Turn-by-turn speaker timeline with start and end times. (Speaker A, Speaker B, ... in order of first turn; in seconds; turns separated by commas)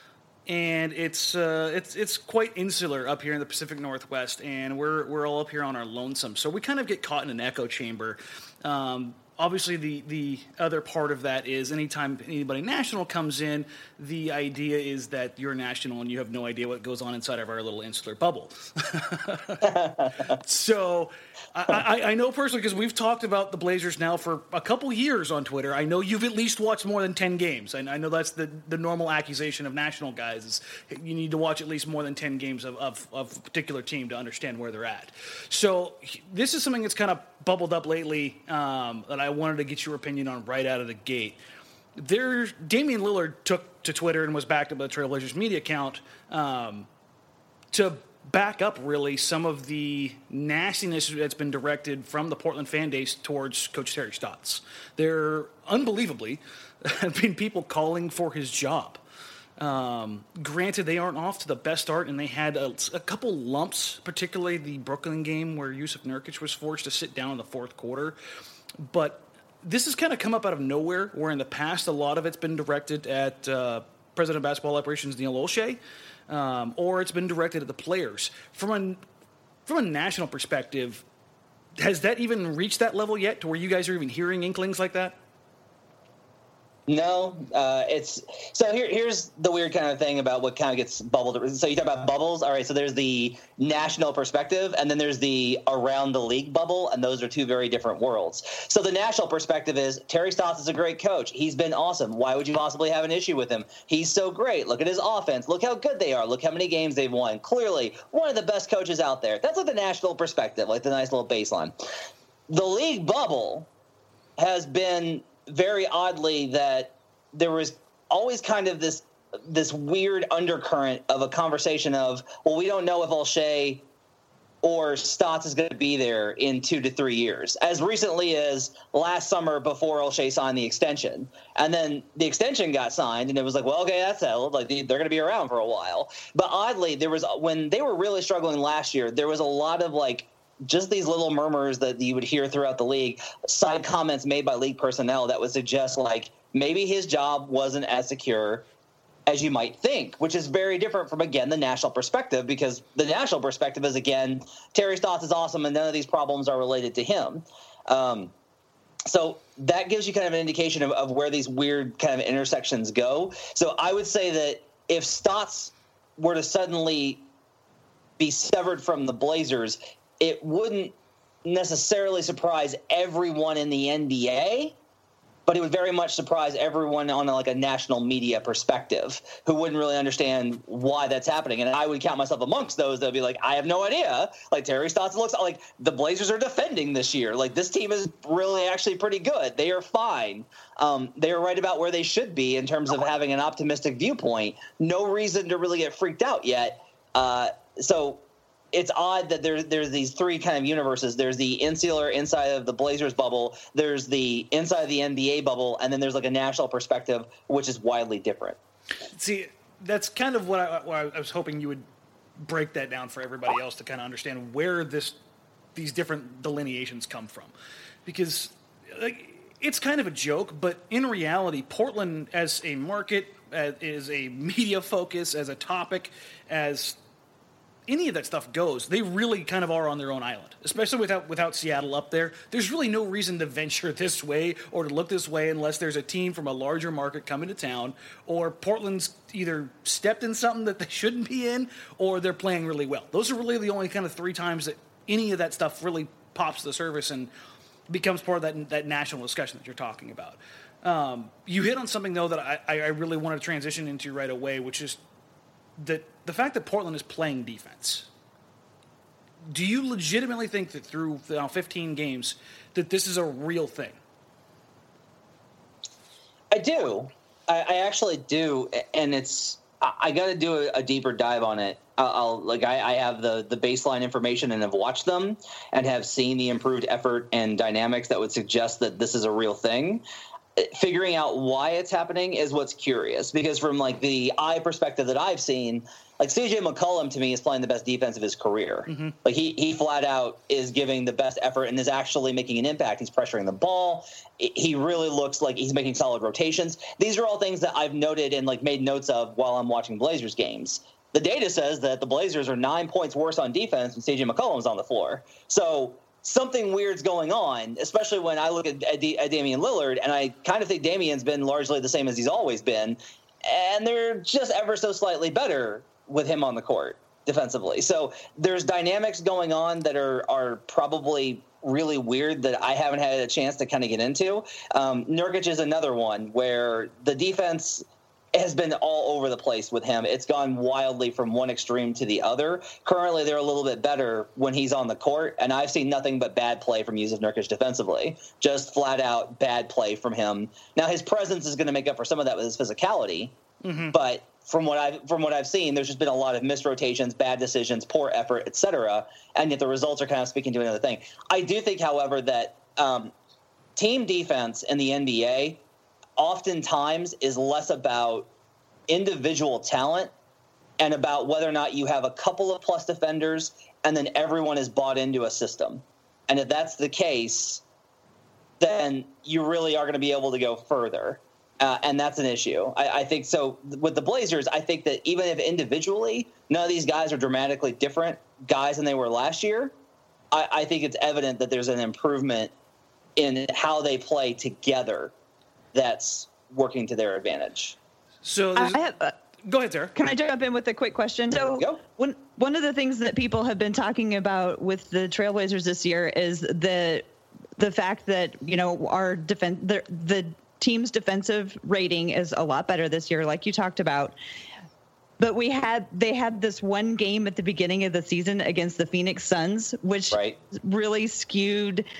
Speaker A: 0.5-41.4, Speaker B: 19.7-20.1, Speaker A: 42.0-46.9, Speaker A: 47.7-59.0, Speaker A: 59.6-68.2, Speaker A: 68.8-79.0, Speaker A: 79.7-81.0, Speaker A: 81.8-85.2, Speaker B: 86.9-111.7, Speaker B: 112.5-113.7, Speaker B: 114.4-123.8, Speaker B: 124.6-148.7, Speaker B: 149.3-158.3, Speaker B: 159.1-167.2, Speaker B: 168.2-170.9, Speaker B: 171.4-174.8, Speaker B: 175.5-198.2, Speaker B: 198.7-208.6, Speaker A: 209.1-211.8, Speaker A: 212.4-215.2, Speaker A: 215.8-217.5, Speaker A: 218.1-227.0, Speaker A: 227.9-247.3, Speaker A: 247.9-255.0, Speaker A: 255.8-258.1, Speaker A: 259.5-264.0, Speaker B: 266.5-280.0, Speaker B: 280.6-327.8, Speaker A: 288.9-289.1, Speaker B: 328.4-343.3, Speaker A: 343.6-344.0, Speaker B: 343.9-353.1, Speaker B: 353.8-355.6, Speaker B: 356.2-358.3, Speaker B: 358.9-360.1, Speaker B: 360.8-367.6, Speaker B: 368.6-379.7, Speaker B: 380.3-382.5, Speaker B: 383.2-385.1, Speaker B: 385.7-387.8, Speaker A: 388.2-388.8, Speaker C: 388.6-389.1, Speaker A: 389.4-389.9, Speaker C: 389.9-397.1, Speaker B: 391.6-391.8, Speaker C: 397.6-404.1, Speaker C: 405.2-411.9, Speaker B: 410.1-410.4